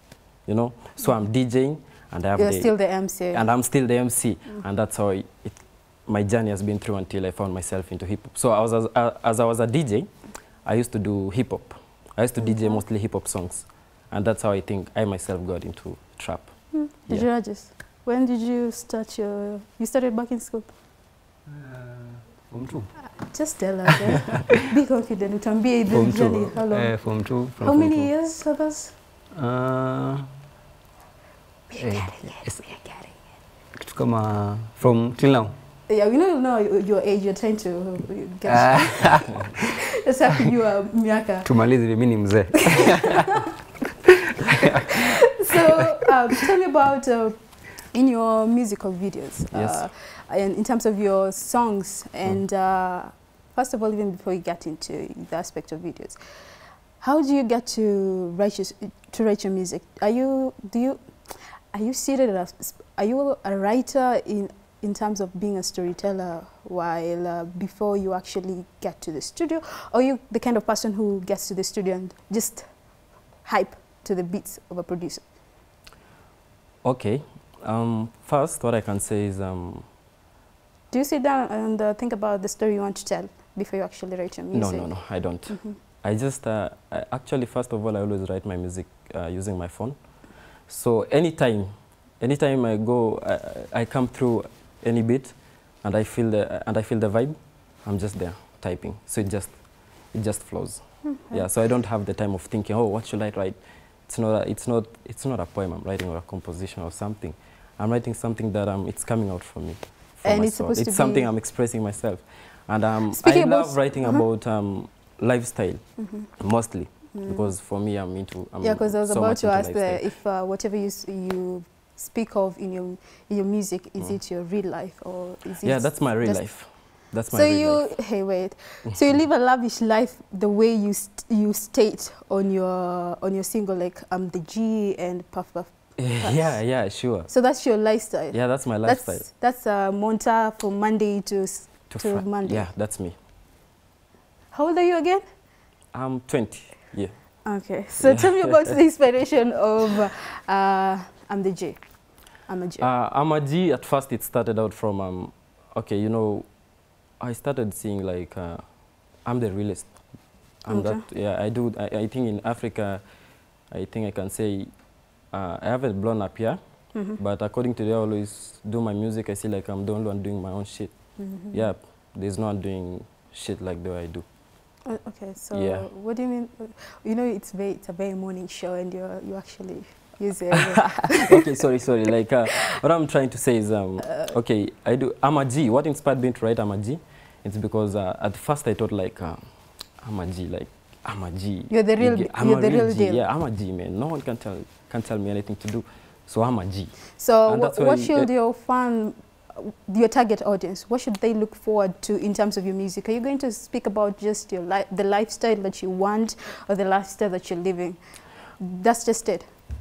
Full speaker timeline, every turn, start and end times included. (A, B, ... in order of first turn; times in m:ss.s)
0:00.4-0:10.1 A
0:02.4-0:03.5 B
0:10.6-0:17.3 A
0:12.4-0:12.8 B
0:16.7-0:20.7 B
0:21.5-0:23.1 C
0:23.1-0:27.0 B
0:24.2-0:24.5 C
0:25.9-0:28.1 C
0:27.6-0:28.9 B
0:29.3-0:30.3 C
0:31.7-0:32.9 C
0:33.7-0:35.5 C
0:35.9-0:41.5 B
0:38.4-0:39.5 C
0:41.4-0:43.4 C
0:44.5-0:45.0 C
0:44.8-1:12.6 B
0:49.5-0:49.8 A
1:13.4-1:15.2 B
1:16.8-1:19.8 A
1:20.9-1:25.8 B
1:24.5-1:30.1 A
1:30.6-1:43.5 A
1:41.0-1:41.4 B
1:44.0-2:00.1 A
1:50.2-1:51.3 B
1:53.1-1:54.2 B
1:56.0-1:56.3 B
1:57.1-1:57.5 B
1:58.6-2:06.4 B
2:05.6-2:08.0 A
2:07.3-2:22.7 B
2:08.9-2:09.1 A
2:16.0-2:17.3 A
2:18.3-2:19.2 A
2:21.9-2:23.1 A
2:24.5-2:25.2 B
2:25.9-2:27.1 A
2:27.4-2:32.9 B
2:28.0-2:28.7 A
2:32.8-2:36.5 A
2:37.2-2:38.6 A
2:39.2-2:43.0 A
2:40.7-2:41.0 B
2:43.7-2:44.7 A
2:45.3-2:50.9 A
2:46.9-2:47.2 B
2:51.2-2:51.6 B
2:51.4-2:54.2 A
2:54.8-3:01.4 B
2:55.5-2:55.9 A
3:00.6-3:09.4 A
3:04.0-3:04.3 B
3:10.0-3:18.3 A
3:11.7-3:13.3 B
3:17.2-3:29.5 B